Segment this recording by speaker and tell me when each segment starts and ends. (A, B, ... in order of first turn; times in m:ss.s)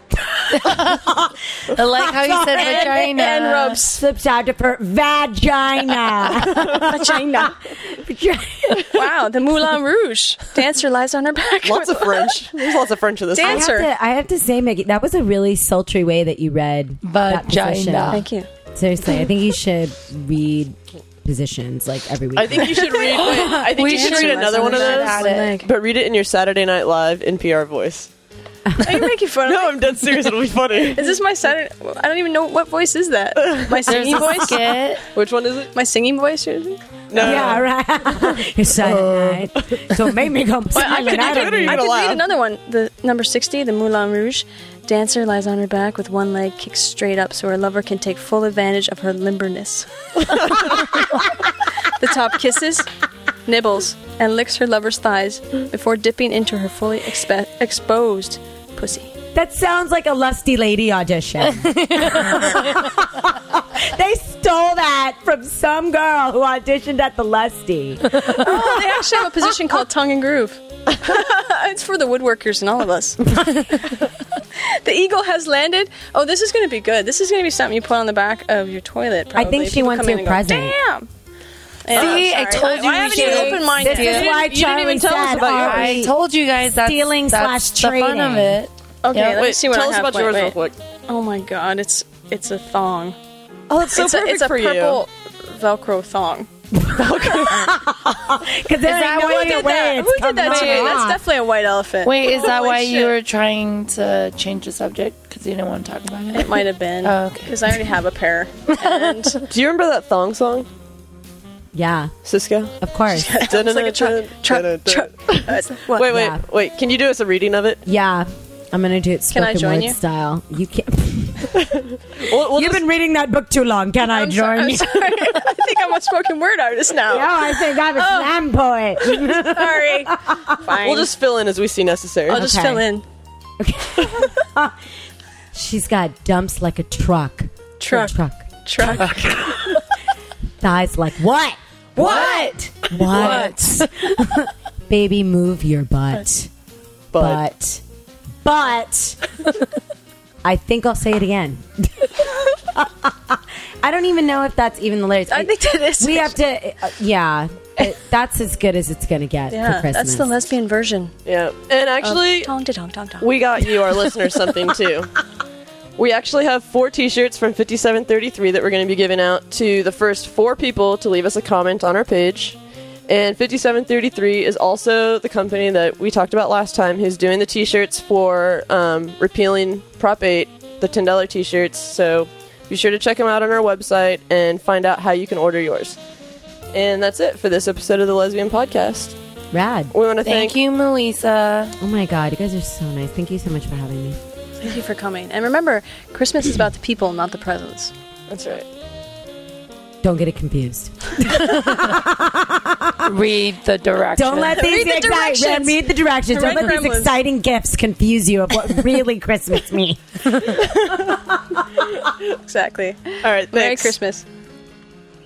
0:00.5-0:01.0 A
0:00.5-0:03.2 B
0:01.7-0:03.8 A
0:02.5-0:04.0 C
0:04.0-0:09.1 B
0:06.6-0:07.6 C
0:08.8-0:12.6 C
0:11.6-0:13.7 D
0:13.3-0:13.9 C
0:13.4-0:23.7 B
0:17.0-0:18.2 A
0:18.1-0:18.5 C
0:22.4-0:28.1 D
0:23.6-0:25.7 C
0:23.8-0:25.6 A
0:28.7-0:29.0 B
0:28.8-0:30.1 C
0:29.5-0:31.2 D
0:30.9-0:34.8 C
0:33.4-0:34.5 D
0:33.9-0:35.0 A
0:35.2-0:35.7 D
0:35.7-0:37.6 C
0:37.1-0:37.7 D
0:37.2-0:41.9 B
0:38.7-0:40.0 D
0:40.7-0:50.8 C
0:40.8-0:42.3 D
0:51.8-0:52.9 C
0:53.5-0:59.1 C
0:59.3-1:08.8 B
1:08.2-1:13.3 C
1:13.3-1:14.0 B
1:14.6-1:21.1 C
1:19.4-1:20.8 B
1:21.8-1:24.2 C
1:21.9-1:24.4 A
1:22.0-1:22.6 D
1:23.1-1:26.1 D
1:23.2-1:26.1 B
1:25.6-1:29.4 A
1:26.8-1:28.6 B
1:29.0-1:30.6 C
1:29.4-1:30.8 D
1:31.1-1:33.2 C
1:33.7-1:35.0 D
1:33.9-1:36.5 C
1:36.7-1:41.2 B
1:37.0-1:37.7 D
1:38.9-1:43.2 C
1:38.9-1:39.4 A
1:40.4-1:41.1 A
1:42.0-1:47.8 A
1:46.3-1:49.4 C
1:48.8-1:49.4 A
1:49.5-1:50.7 D
1:51.7-1:52.1 B
1:52.2-1:52.8 D
1:52.8-1:53.4 B
1:53.1-1:56.0 C
1:53.5-1:57.8 D
1:55.9-1:56.4 B
1:57.9-2:01.6 B
1:59.3-2:00.0 C
2:01.6-2:02.8 D
2:02.3-2:05.3 B
2:04.1-2:08.4 C
2:07.1-2:10.6 B
2:09.0-2:11.1 C
2:10.8-2:12.4 D
2:12.3-2:12.9 B
2:12.3-2:13.0 C
2:13.6-2:14.8 B
2:15.5-2:19.8 B
2:17.8-2:19.6 C
2:20.6-2:26.5 B
2:22.0-2:24.1 A
2:27.1-2:27.4 D
2:27.1-2:27.8 B
2:28.4-2:29.3 B
2:30.4-2:40.3 B
2:35.3-2:36.4 C
2:39.5-2:41.1 C
2:41.2-2:42.5 D
2:42.0-2:43.8 C
2:43.2-2:45.1 D
2:46.0-3:06.0 D
3:06.7-3:09.2 D
3:09.5-3:09.9 B
3:09.9-3:10.6 D
3:10.2-3:11.8 A
3:11.8-3:14.2 B
3:14.6-3:17.9 C
3:18.3-3:18.7 D
3:20.0-3:23.1 B
3:23.0-3:24.7 A
3:24.2-3:30.7 B
3:24.5-3:27.1 C
3:32.3-3:34.2 C
3:33.2-3:33.9 D